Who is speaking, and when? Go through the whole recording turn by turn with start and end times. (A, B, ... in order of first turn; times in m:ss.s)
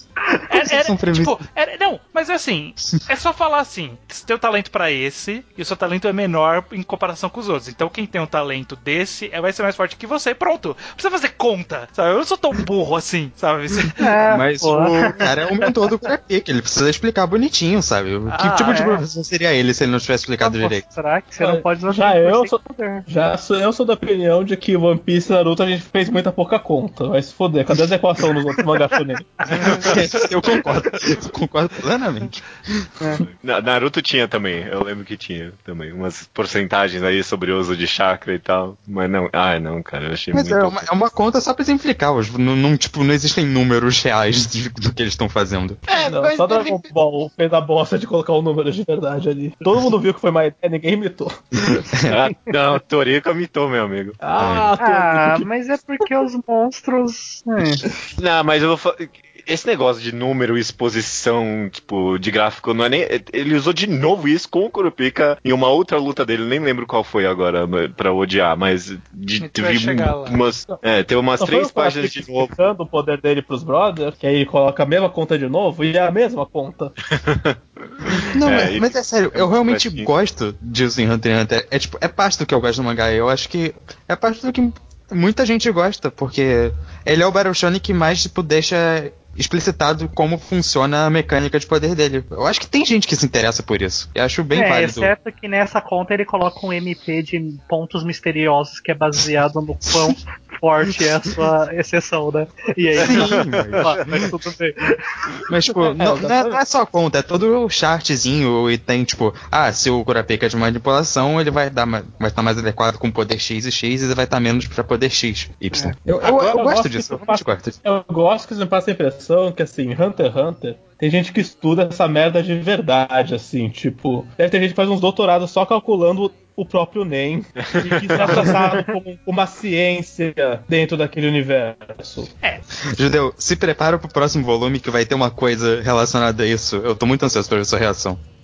0:00.5-0:14.1 A
0:00.5-0:01.4 B
0:14.0-0:16.1 C
0:14.3-0:20.8 B
0:18.3-0:19.0 A
0:18.6-0:19.0 C
0:20.4-0:23.0 C
0:21.4-0:29.8 D
0:29.5-0:29.8 C
0:29.8-0:32.9 B
0:33.0-0:33.3 C
0:33.4-0:40.9 E
0:40.3-0:45.8 B
0:45.9-0:46.9 E
0:46.0-0:51.3 D
0:51.7-0:52.1 B
0:52.1-0:54.2 E
0:54.2-0:55.5 D
0:54.4-0:54.7 B
0:54.8-0:57.8 C
0:58.2-1:12.6 E
1:09.4-1:10.4 A
1:11.4-1:17.0 D
1:17.1-1:20.1 E
1:18.3-1:35.1 B
1:34.5-1:45.4 C
1:39.8-1:40.1 B
1:43.0-1:44.0 E
1:43.0-1:44.3 B
1:45.5-1:57.8 B
1:45.8-1:46.6 D
1:56.0-2:12.3 D
2:07.7-2:08.5 E
2:12.9-2:18.2 B